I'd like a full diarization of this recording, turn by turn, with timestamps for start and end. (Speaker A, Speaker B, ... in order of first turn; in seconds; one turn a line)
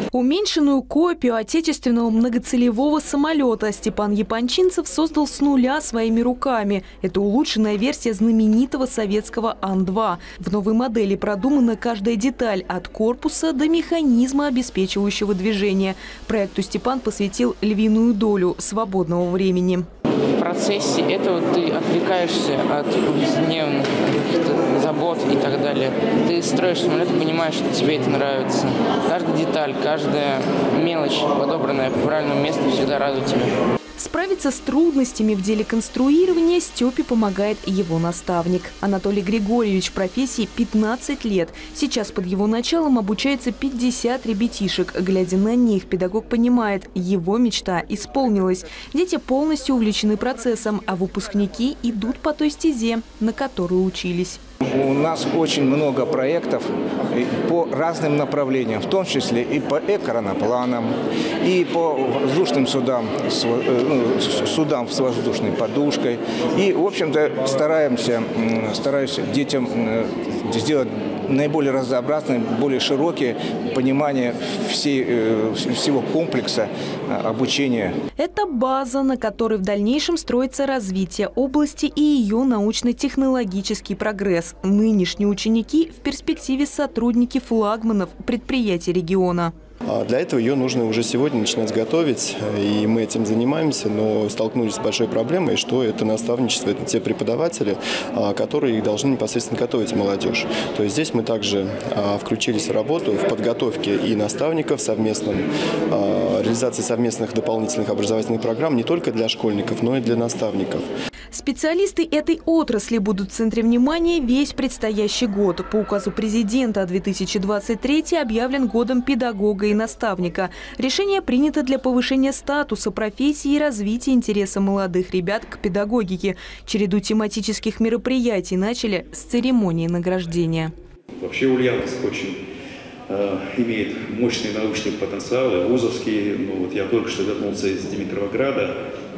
Speaker A: 0.1-19.9
Speaker B: 20.3-33.5
Speaker A: 34.0-54.4
Speaker C: 54.6-78.0
Speaker A: 78.2-89.5
Speaker D: 89.9-110.8
Speaker A: 111.3-130.7
Speaker E: 131.2-132.3
Speaker E: 133.1-138.7